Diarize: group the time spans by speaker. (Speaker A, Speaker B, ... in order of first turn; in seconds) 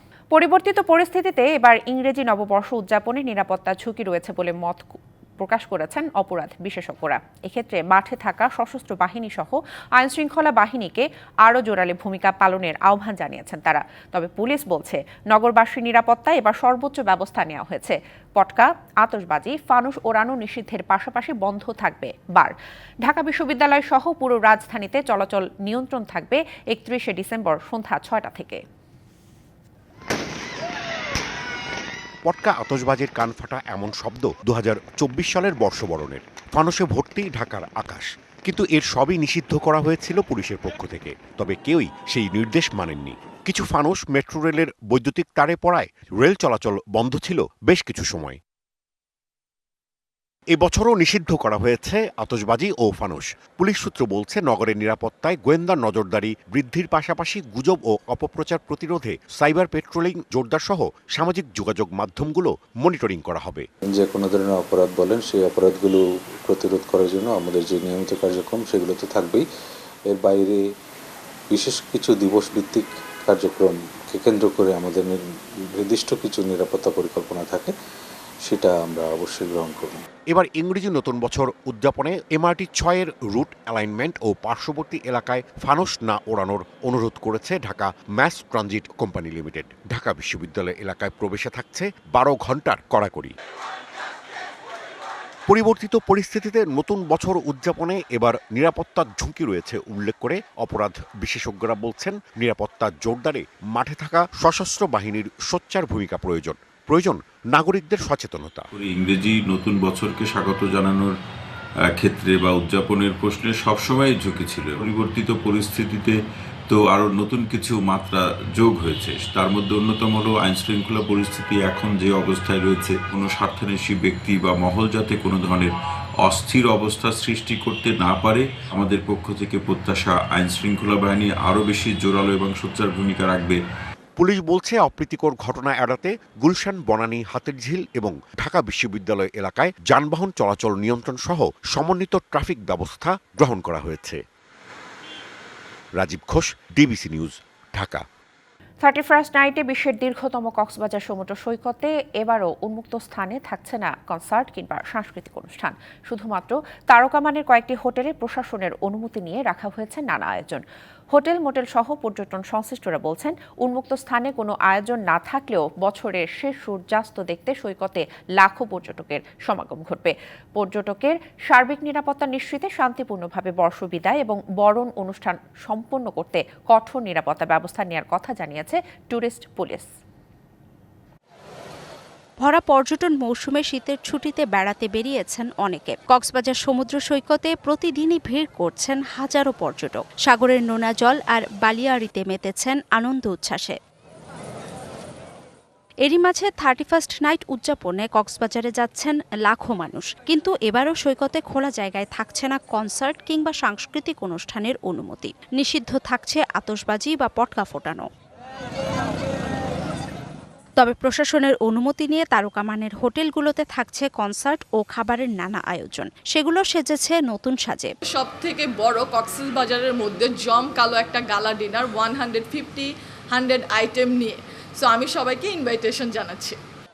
Speaker A: 0.3-22.5, 23.0-28.6, 148.8-179.9
Speaker B: 32.2-48.4, 50.5-63.7, 80.3-93.3, 95.5-108.7, 134.2-144.2, 146.0-148.0
Speaker C: 63.9-69.5, 70.1-70.7, 71.5-77.7, 78.4-80.0
Speaker D: 108.7-111.1, 111.9-116.2, 116.7-125.7, 126.2-133.6
Speaker E: 182.4-193.8, 196.0-208.1, 210.8-217.9
Speaker F: 218.1-226.6